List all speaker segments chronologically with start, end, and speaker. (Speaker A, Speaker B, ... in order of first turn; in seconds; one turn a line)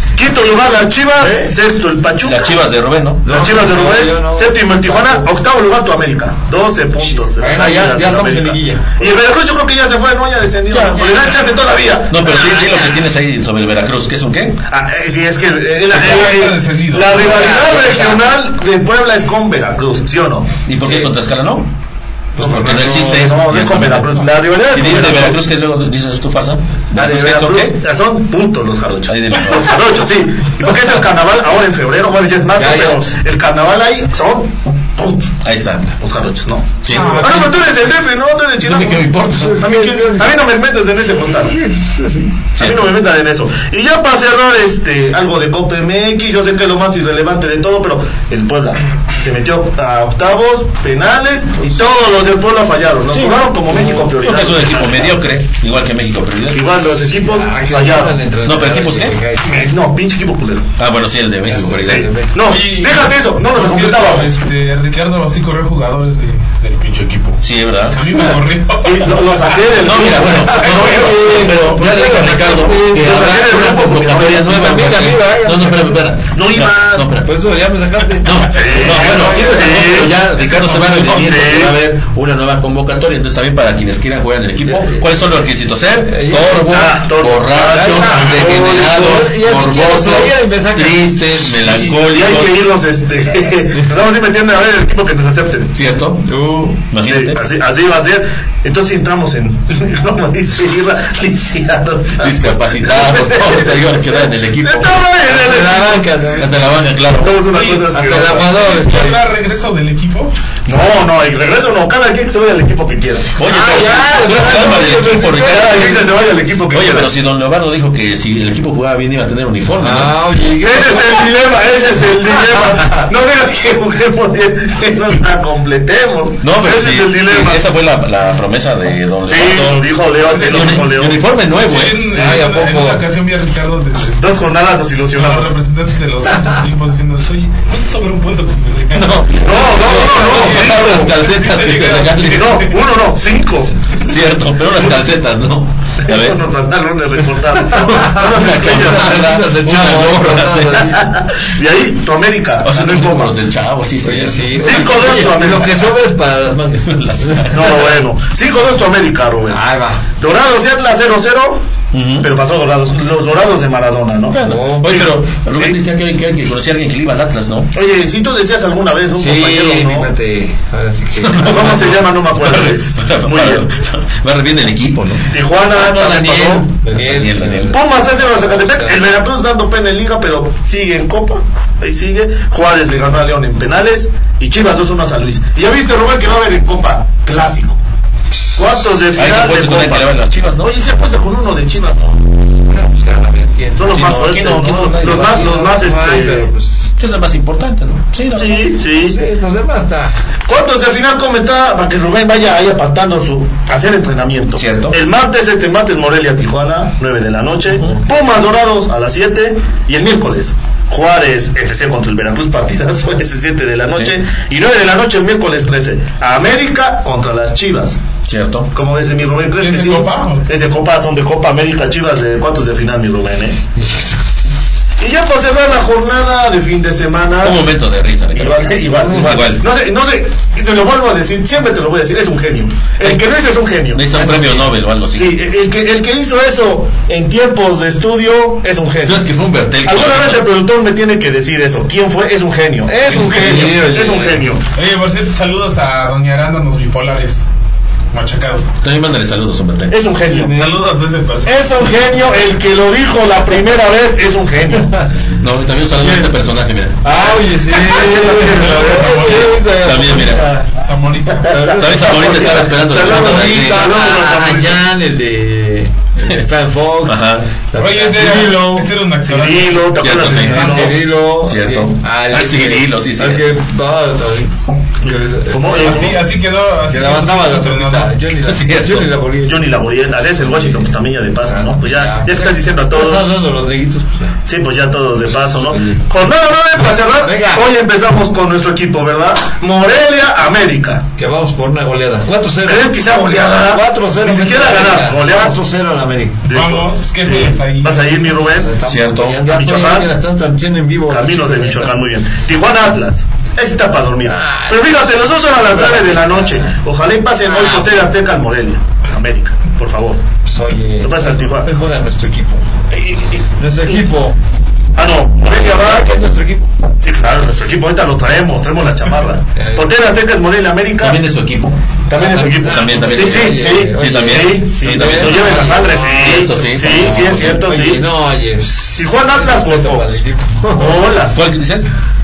Speaker A: 0.1-2.6
Speaker B: 1.2-1.5
Speaker C: 2.2-3.3
Speaker B: 3.2-5.3
Speaker A: 3.3-12.1
Speaker B: 7.1-9.0
Speaker C: 10.7-11.1
Speaker C: 12.1-14.6
Speaker B: 12.2-13.1
Speaker A: 14.7-20.5
Speaker D: 15.9-17.2
Speaker B: 17.1-18.2
Speaker C: 20.6-21.7
Speaker B: 20.8-21.1
Speaker B: 22.4-23.3
Speaker C: 22.4-27.7
Speaker A: 22.4-25.4
Speaker A: 26.9-35.3
Speaker C: 29.1-29.8
Speaker B: 32.5-33.1
Speaker C: 35.4-35.9
Speaker A: 36.0-41.5
Speaker C: 36.8-37.5
Speaker D: 36.9-37.8
Speaker C: 38.6-39.6
Speaker B: 39.3-40.4
Speaker B: 41.2-42.4
Speaker C: 42.6-42.9
Speaker A: 42.6-55.1
Speaker C: 53.1-56.7
Speaker A: 56.5-58.2
Speaker B: 57.2-59.7
Speaker C: 58.4-59.1
Speaker A: 59.4-60.6
Speaker C: 60.8-62.1
Speaker B: 61.5-62.5
Speaker A: 61.8-64.3
Speaker D: 62.4-67.4
Speaker C: 67.4-68.0
Speaker D: 67.9-69.8
Speaker B: 68.1-68.4
Speaker A: 68.8-71.7
Speaker C: 69.8-77.3
Speaker B: 70.5-73.7
Speaker A: 72.5-74.7
Speaker B: 74.3-76.1
Speaker A: 76.3-77.1
Speaker B: 77.2-80.1
Speaker C: 78.2-92.6
Speaker A: 78.5-80.1
Speaker D: 80.4-81.1
Speaker A: 80.8-81.7
Speaker B: 84.6-85.1
Speaker B: 86.0-86.7
Speaker A: 86.7-89.3
Speaker B: 87.7-91.7
Speaker A: 91.8-95.7
Speaker C: 95.7-96.2
Speaker B: 96.2-96.8
Speaker C: 96.9-97.4
Speaker A: 97.0-104.0
Speaker C: 102.2-105.0
Speaker A: 104.6-106.2
Speaker B: 105.3-106.5
Speaker C: 106.4-107.6
Speaker A: 107.2-108.5
Speaker B: 107.8-109.3
Speaker D: 108.2-110.3
Speaker A: 110.7-113.4
Speaker C: 113.4-116.1
Speaker B: 113.4-116.1
Speaker A: 115.3-117.1
Speaker C: 116.7-120.2
Speaker B: 119.8-121.3
Speaker A: 120.6-127.6
Speaker B: 122.3-123.1
Speaker C: 126.4-132.0
Speaker A: 129.3-131.2
Speaker D: 130.3-130.8
Speaker D: 131.6-134.3
Speaker A: 132.1-132.4
Speaker B: 132.1-133.1
Speaker A: 134.2-135.5
Speaker D: 135.1-139.2
Speaker C: 138.9-142.6
Speaker A: 139.4-141.1
Speaker D: 140.1-142.7
Speaker A: 142.3-143.7
Speaker C: 144.1-146.4
Speaker A: 146.0-149.3
Speaker C: 147.7-150.9
Speaker B: 147.8-151.1
Speaker A: 150.8-153.3
Speaker C: 152.6-155.0
Speaker B: 154.0-157.7
Speaker A: 154.6-155.9
Speaker C: 156.9-157.9
Speaker A: 157.5-159.6
Speaker B: 159.5-160.0
Speaker A: 160.2-161.6
Speaker C: 161.9-162.3
Speaker A: 162.2-164.4
Speaker C: 164.3-167.7
Speaker B: 164.4-165.1
Speaker A: 164.9-165.8
Speaker A: 167.7-170.1
Speaker B: 169.2-171.8
Speaker C: 171.2-175.3
Speaker A: 171.4-173.7
Speaker A: 175.3-176.7
Speaker C: 175.8-177.7
Speaker B: 176.2-179.0
Speaker A: 177.7-187.8
Speaker A: 188.6-192.2
Speaker C: 189.2-190.7
Speaker B: 192.4-194.3
Speaker A: 193.8-196.5
Speaker C: 193.9-195.6
Speaker B: 195.1-196.9
Speaker C: 197.0-198.6
Speaker A: 198.3-199.2
Speaker B: 198.6-200.1
Speaker A: 200.5-218.0
Speaker C: 204.6-204.9
Speaker C: 218.3-218.7
Speaker A: 218.7-223.6
Speaker D: 219.6-220.5
Speaker B: 223.8-224.2
Speaker A: 225.0-227.6
Speaker C: 227.4-229.6
Speaker A: 228.3-239.2
Speaker B: 229.0-229.4
Speaker C: 233.0-233.4
Speaker C: 233.9-235.3
Speaker C: 239.0-240.4
Speaker A: 239.9-244.6
Speaker B: 242.9-244.4
Speaker D: 243.0-243.8
Speaker D: 244.7-247.5
Speaker D: 248.1-248.7
Speaker C: 248.8-249.9
Speaker A: 249.9-250.6
Speaker B: 250.2-250.8
Speaker D: 250.4-251.9
Speaker A: 251.4-254.9
Speaker B: 254.7-255.3
Speaker C: 255.3-257.0
Speaker B: 255.9-256.4
Speaker B: 257.0-260.8
Speaker A: 257.1-259.4
Speaker D: 258.4-259.7
Speaker C: 259.8-260.5
Speaker D: 260.8-261.6
Speaker B: 261.4-268.9
Speaker A: 261.5-264.8
Speaker C: 261.8-263.9
Speaker C: 267.1-267.4
Speaker D: 267.8-271.0
Speaker A: 269.2-270.9
Speaker C: 270.0-270.9
Speaker B: 270.3-276.2
Speaker C: 271.4-273.4
Speaker A: 275.0-276.2
Speaker D: 275.8-278.2
Speaker B: 276.9-284.4
Speaker C: 278.4-279.1
Speaker A: 279.4-283.3
Speaker A: 284.4-291.1
Speaker B: 285.5-286.1
Speaker B: 287.2-287.6
Speaker B: 291.1-296.4
Speaker A: 292.6-295.6
Speaker A: 296.4-298.7
Speaker D: 296.5-298.3
Speaker B: 298.4-302.0
Speaker C: 298.9-299.4
Speaker A: 299.5-300.1
Speaker A: 301.1-310.2
Speaker B: 304.2-306.8
Speaker B: 307.4-308.0
Speaker B: 310.4-312.7
Speaker A: 311.0-311.7
Speaker A: 312.9-314.0
Speaker B: 313.6-314.4
Speaker A: 314.9-316.1
Speaker B: 315.4-316.7
Speaker A: 317.0-321.2
Speaker B: 319.6-319.9
Speaker C: 321.0-321.8
Speaker A: 322.1-328.0
Speaker B: 322.1-331.1
Speaker C: 322.6-327.6
Speaker A: 329.0-330.2
Speaker A: 330.7-331.4
Speaker C: 331.3-331.9